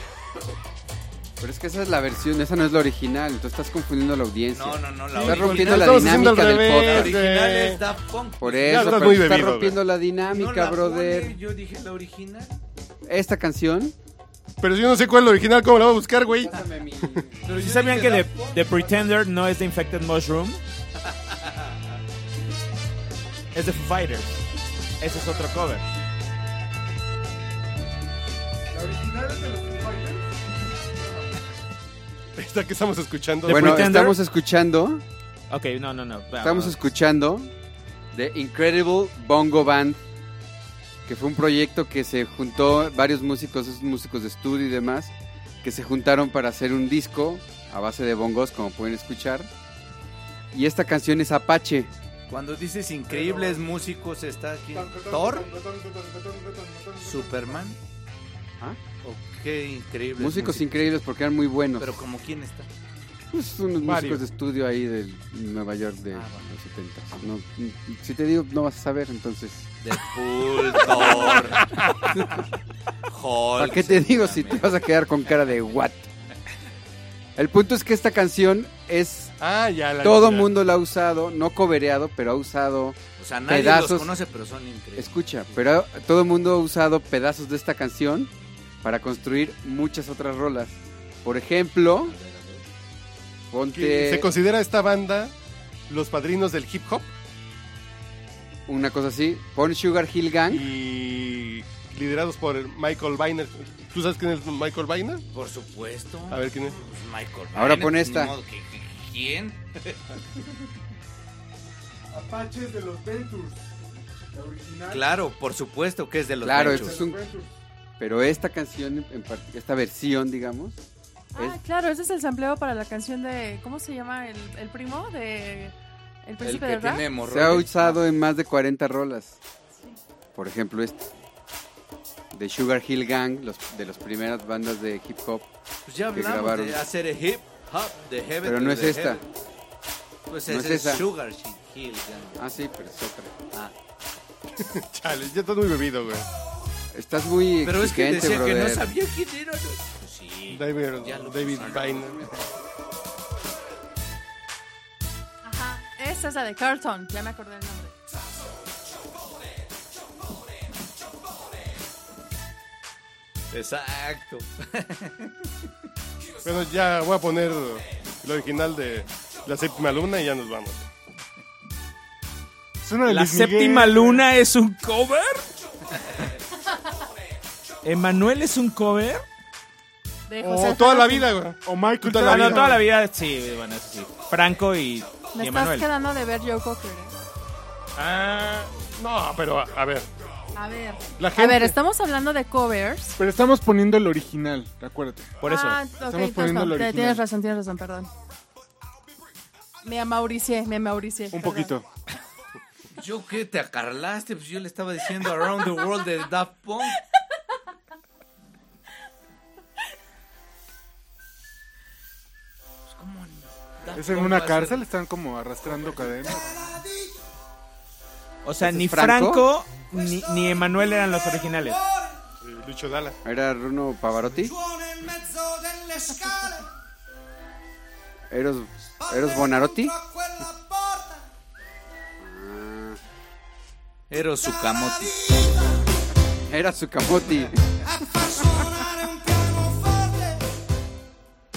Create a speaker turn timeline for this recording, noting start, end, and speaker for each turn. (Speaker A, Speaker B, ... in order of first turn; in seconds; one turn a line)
Speaker A: 1.4-7.2
Speaker B: 4.5-9.3
Speaker C: 5.1-7.8
Speaker A: 8.4-11.4
Speaker C: 8.6-9.8
Speaker B: 10.2-12.6
Speaker A: 13.1-13.9
Speaker C: 14.6-17.2
Speaker A: 16.3-17.5
Speaker B: 17.4-18.9
Speaker D: 17.5-20.6
Speaker D: 23.5-24.4
Speaker D: 25.0-25.8
Speaker E: 28.7-30.3
Speaker C: 32.4-34.0
Speaker D: 33.5-34.1
Speaker A: 33.5-35.0
Speaker D: 35.5-36.8
Speaker A: 36.4-37.5
Speaker A: 38.1-40.0
Speaker A: 41.0-49.5
Speaker A: 50.5-51.9
Speaker B: 52.3-55.5
Speaker E: 53.1-53.6
Speaker E: 54.7-57.6
Speaker B: 57.0-57.8
Speaker B: 59.0-60.7
Speaker A: 60.2-61.9
Speaker B: 61.8-62.7
Speaker A: 63.3-69.7
Speaker C: 63.8-64.2
Speaker B: 66.1-66.5
Speaker B: 69.8-71.7
Speaker C: 71.0-72.1
Speaker A: 72.2-72.4
Speaker B: 73.1-74.8
Speaker A: 73.6-76.1
Speaker A: 77.3-79.3
Speaker C: 79.4-80.5
Speaker A: 80.0-84.1
Speaker B: 83.2-85.1
Speaker A: 85.0-88.3
Speaker A: 88.8-92.1
Speaker B: 92.0-92.6
Speaker A: 93.5-94.3
Speaker C: 93.7-95.3
Speaker C: 95.9-97.1
Speaker A: 98.7-100.7
Speaker C: 100.5-105.2
Speaker B: 105.3-110.0
Speaker C: 106.3-106.8
Speaker A: 107.5-108.3
Speaker E: 112.1-113.6
Speaker E: 114.3-115.0
Speaker B: 114.9-117.0
Speaker A: 116.4-117.2
Speaker E: 116.5-117.5
Speaker A: 118.0-120.8
Speaker F: 121.3-127.0
Speaker B: 126.4-128.0
Speaker A: 127.2-129.4
Speaker A: 130.3-131.1
Speaker A: 132.3-135.5
Speaker B: 135.8-139.2
Speaker A: 136.1-136.8
Speaker A: 138.4-139.2
Speaker B: 140.3-142.4
Speaker A: 140.5-141.1
Speaker A: 142.3-143.3
Speaker C: 144.6-146.3
Speaker A: 146.9-148.8
Speaker B: 147.6-152.2
Speaker C: 150.5-152.3
Speaker F: 155.4-157.9
Speaker B: 163.5-165.4
Speaker C: 166.4-170.9
Speaker E: 172.8-174.2
Speaker D: 173.0-175.5
Speaker D: 177.8-179.2
Speaker F: 180.3-181.2
Speaker C: 180.4-182.7
Speaker E: 181.6-182.8
Speaker D: 182.2-185.9
Speaker F: 185.3-187.1
Speaker C: 187.9-190.1
Speaker F: 190.6-193.2
Speaker C: 191.2-191.8
Speaker E: 193.2-195.4
Speaker D: 195.4-195.8
Speaker F: 195.4-198.1
Speaker E: 195.9-197.2
Speaker F: 199.8-201.7
Speaker E: 201.3-201.9
Speaker B: 203.0-207.0
Speaker B: 212.9-214.8
Speaker E: 213.9-216.7
Speaker D: 218.4-221.8
Speaker A: 218.6-219.5
Speaker C: 222.4-223.2
Speaker A: 223.2-224.6
Speaker A: 228.3-230.0
Speaker A: 232.2-233.0
Speaker B: 234.1-235.2
Speaker A: 236.4-238.6